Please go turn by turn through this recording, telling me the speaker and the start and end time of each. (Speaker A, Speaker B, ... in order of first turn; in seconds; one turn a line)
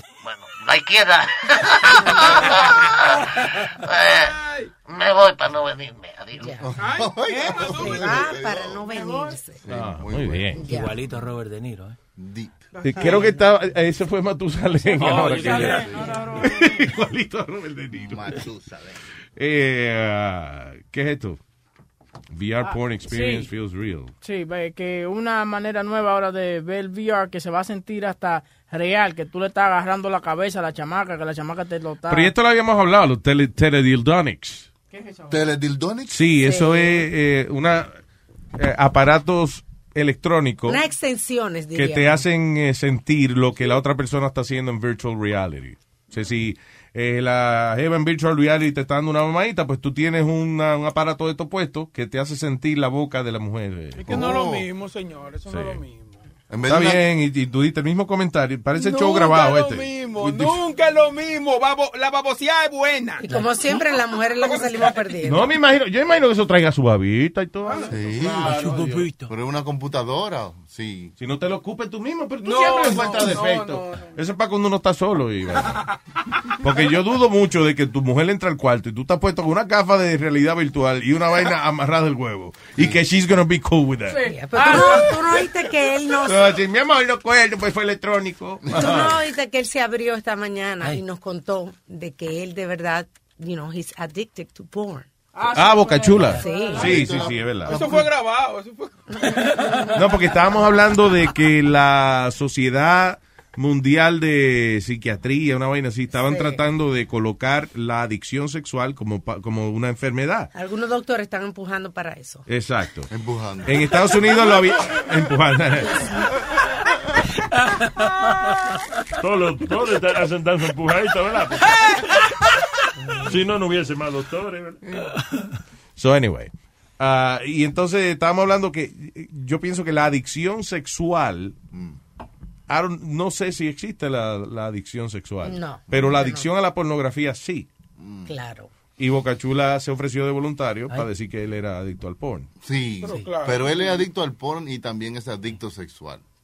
Speaker A: 0.2-6.5
Speaker B: 4.2-4.7
Speaker C: 6.4-6.7
Speaker D: 6.6-8.8
Speaker B: 6.8-8.2
Speaker C: 7.6-9.6
Speaker E: 8.9-9.3
Speaker D: 9.6-10.6
Speaker F: 9.7-10.6
Speaker C: 10.6-10.9
Speaker G: 10.6-12.0
Speaker D: 12.2-12.6
Speaker B: 12.8-13.2
Speaker F: 12.8-18.4
Speaker G: 15.0-15.9
Speaker E: 15.0-16.9
Speaker D: 17.9-19.0
Speaker F: 19.4-21.4
Speaker F: 22.3-24.1
Speaker E: 22.6-23.5
Speaker E: 24.2-32.3
Speaker F: 32.1-34.7
Speaker E: 34.9-35.4
Speaker D: 35.3-36.2
Speaker F: 36.1-37.9
Speaker C: 36.4-37.0
Speaker F: 38.5-40.8
Speaker C: 40.7-42.2
Speaker F: 41.7-54.1
Speaker B: 54.0-56.2
Speaker D: 54.1-54.7
Speaker F: 55.5-55.8
Speaker D: 56.5-57.0
Speaker F: 56.6-60.6
Speaker B: 58.7-63.3
Speaker C: 63.2-65.5
Speaker G: 63.3-63.6
Speaker F: 65.2-69.1
Speaker D: 67.9-68.7
Speaker G: 68.6-69.3
Speaker D: 69.3-71.1
Speaker F: 71.2-75.8
Speaker B: 72.4-74.1
Speaker F: 76.6-84.2
Speaker E: 84.1-85.1
Speaker C: 84.2-86.5
Speaker F: 86.2-89.2
Speaker C: 88.7-95.0
Speaker E: 95.3-97.1
Speaker F: 95.5-97.8
Speaker C: 96.4-97.0
Speaker D: 96.7-98.1
Speaker B: 97.7-99.5
Speaker F: 99.9-110.5
Speaker C: 106.1-106.6
Speaker C: 110.5-112.5
Speaker F: 112.5-113.1
Speaker D: 113.1-113.8
Speaker F: 113.7-116.1
Speaker H: 119.2-121.8
Speaker H: 123.2-124.8
Speaker F: 126.0-131.6
Speaker D: 131.7-132.0
Speaker F: 132.7-137.7
Speaker C: 135.4-136.5
Speaker D: 138.0-138.3
Speaker C: 138.2-138.7
Speaker F: 139.0-142.5
Speaker D: 142.6-146.2
Speaker B: 143.0-144.0
Speaker G: 143.0-143.3